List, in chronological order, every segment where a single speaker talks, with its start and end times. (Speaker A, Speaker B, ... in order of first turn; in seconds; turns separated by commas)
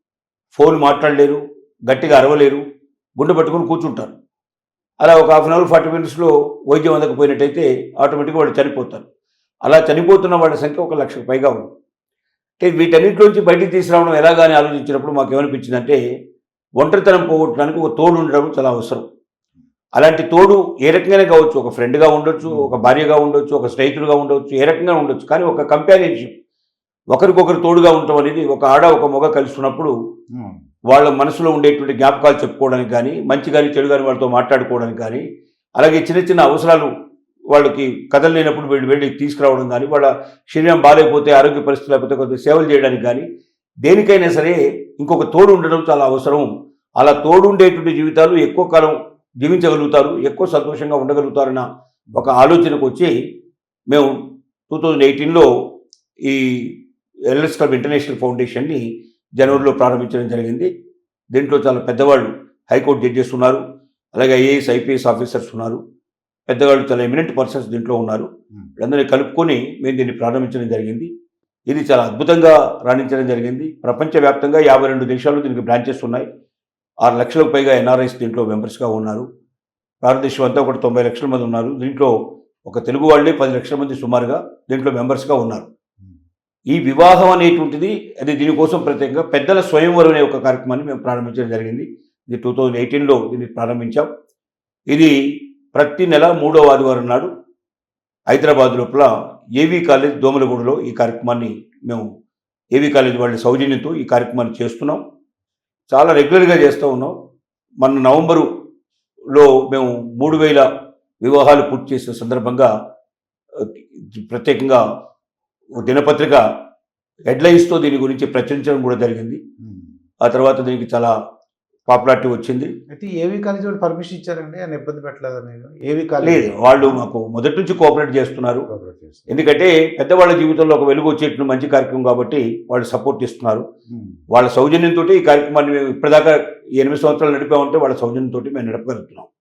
Speaker A: 0.6-2.6, Speaker A: 3.2-4.2, Speaker A: 5.0-9.1, Speaker A: 9.7-11.6, Speaker A: 12.6-16.0, Speaker A: 16.8-19.1, Speaker A: 20.0-26.3, Speaker B: 22.5-22.7, Speaker A: 27.1-29.9, Speaker A: 30.9-35.2, Speaker A: 35.8-36.9, Speaker A: 37.5-43.3, Speaker A: 43.9-53.1, Speaker A: 54.7-55.5, Speaker A: 56.2-56.8, Speaker A: 57.3-58.8, Speaker A: 59.4-60.7, Speaker A: 61.3-63.6, Speaker A: 64.2-65.8, Speaker A: 66.5-71.1, Speaker A: 71.7-76.3, Speaker A: 77.0-79.3, Speaker A: 80.0-82.1, Speaker A: 82.7-85.7, Speaker A: 86.7-94.1, Speaker A: 94.9-95.2, Speaker A: 95.7-97.3, Speaker A: 98.3-102.1, Speaker A: 102.8-105.0, Speaker A: 105.9-107.2, Speaker A: 107.8-108.5, Speaker A: 109.3-110.7, Speaker A: 111.2-112.7, Speaker A: 113.5-114.8, Speaker A: 115.8-116.5, Speaker A: 117.3-119.4, Speaker B: 119.6-119.9, Speaker A: 120.2-121.1, Speaker A: 121.9-122.7, Speaker B: 122.9-127.0, Speaker A: 126.2-128.7, Speaker B: 128.7-129.3, Speaker A: 129.3-133.7, Speaker B: 133.9-134.2, Speaker A: 134.3-139.3